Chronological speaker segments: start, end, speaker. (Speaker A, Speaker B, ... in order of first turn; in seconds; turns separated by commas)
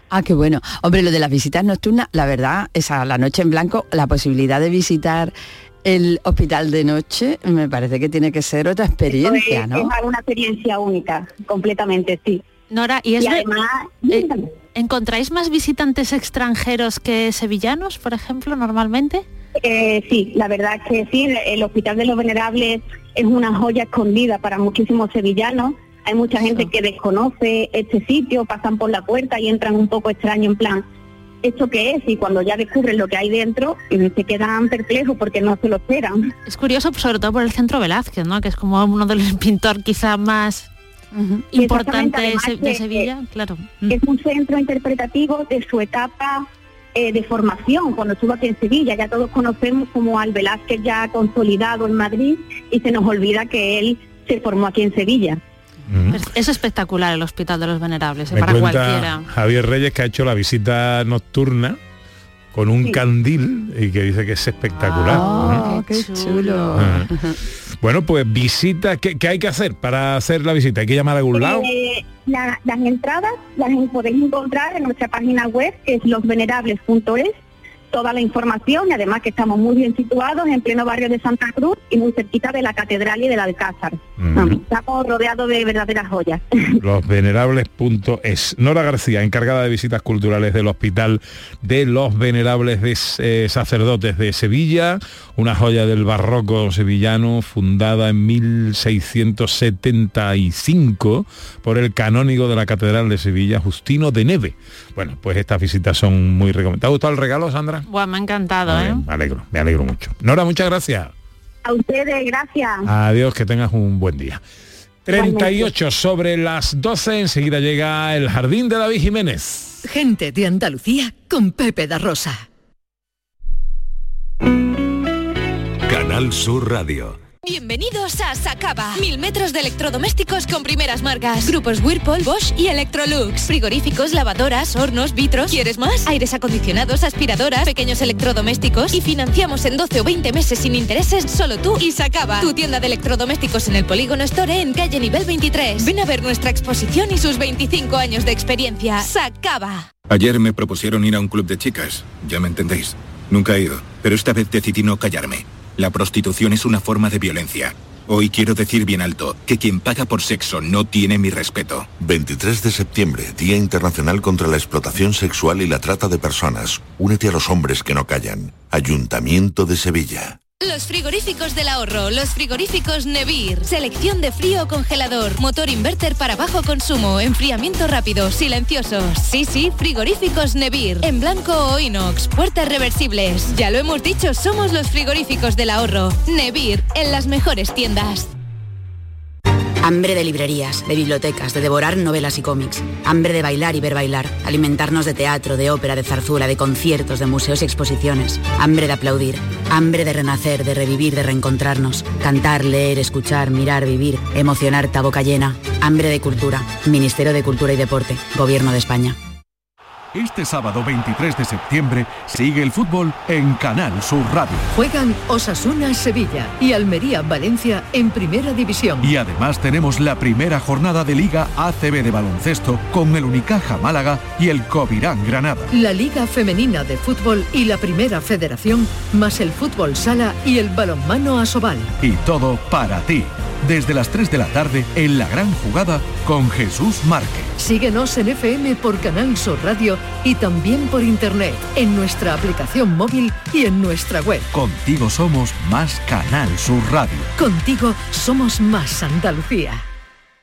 Speaker A: 0.1-9.9, Speaker B: 9.1-12.4, Speaker C: 12.7-13.5, Speaker B: 13.2-14.4, Speaker C: 14.1-19.2, Speaker B: 19.6-30.8, Speaker B: 31.4-36.2, Speaker C: 36.5-40.7, Speaker A: 41.1-41.5, Speaker C: 41.5-44.0, Speaker B: 41.5-43.1, Speaker B: 43.9-55.4, Speaker D: 55.9-56.2, Speaker C: 56.1-59.3, Speaker D: 58.3-61.8, Speaker D: 62.5-65.6, Speaker C: 64.8-66.8, Speaker A: 65.1-67.4, Speaker D: 66.8-67.1, Speaker D: 67.8-71.7, Speaker B: 71.3-77.3, Speaker B: 77.9-86.8, Speaker D: 84.2-84.6, Speaker D: 86.8-107.8, Speaker C: 107.9-109.0, Speaker D: 108.7-111.1, Speaker B: 111.7-112.9, Speaker D: 112.8-114.4, Speaker D: 115.0-119.8, Speaker B: 115.1-115.7, Speaker E: 119.8-122.4, Speaker F: 125.9-127.2, Speaker G: 127.4-149.9, Speaker H: 150.1-161.9, Speaker I: 162.0-170.4, Speaker G: 170.6-188.3, Speaker J: 189.8-209.2, Speaker F: 210.1-214.7, Speaker E: 214.7-219.1, Speaker F: 219.0-225.7, Speaker E: 225.7-231.9, Speaker F: 232.0-237.5, Speaker E: 237.6-244.5, Speaker F: 244.5-247.3, Speaker E: 247.4-249.8